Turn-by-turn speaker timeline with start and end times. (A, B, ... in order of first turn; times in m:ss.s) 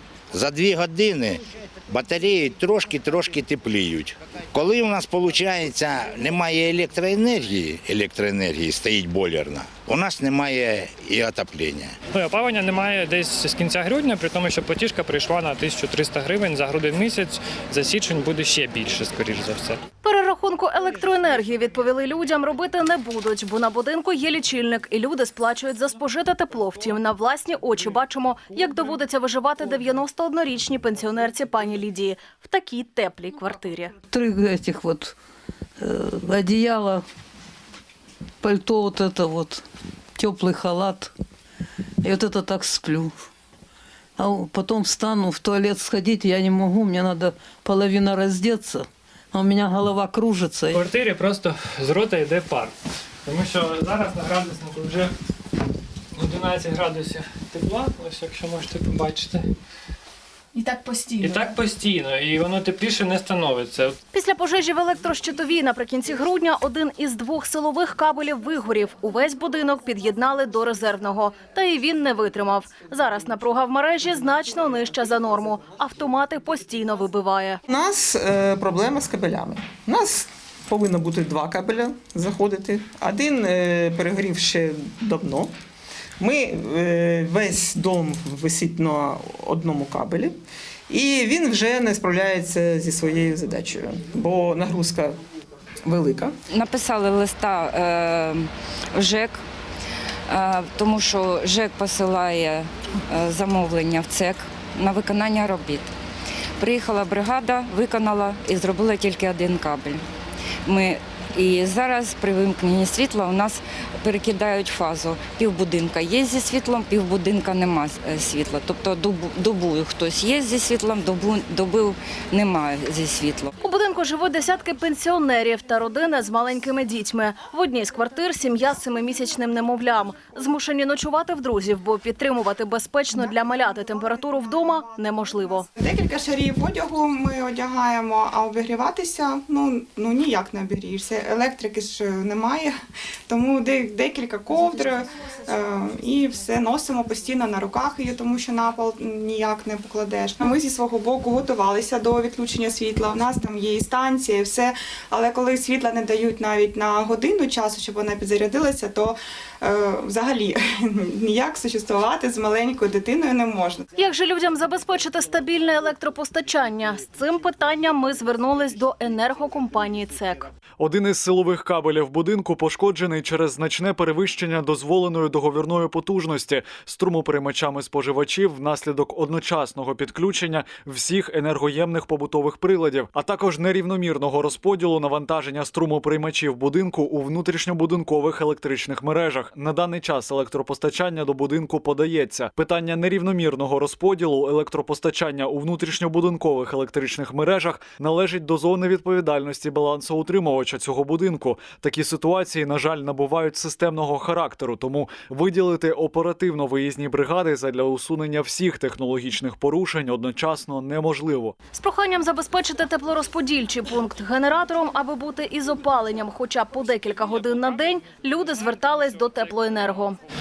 0:00.3-0:11.9 A
0:12.1-0:19.8 B
0:20.0-0:33.9 C
0:34.1-0:35.2 D
0:35.8-0:37.0 D
0:38.4-0:39.6 D
0:40.2-0:41.1 D
0:42.0-0:43.1 D
0:44.2-0:50.8 D
0:50.8-0:52.7 B
0:53.2-0:55.1 B
0:56.2-0:59.4 B
1:01.2-1:04.0 B
1:04.1-1:17.6 C
1:17.7-1:25.5 E
1:26.2-1:30.4 E
1:30.9-1:35.2 E
1:35.8-1:36.3 E
1:36.5-1:39.4 F
1:40.3-1:45.9 F
1:46.6-1:50.0 F
1:50.6-2:03.5 F
2:03.6-2:15.6 C
2:13.1-2:14.9 G
2:15.7-2:22.8 G
2:23.3-2:43.9 G
2:44.0-2:50.5 C
2:50.8-3:31.5 H
3:31.7-3:40.1 C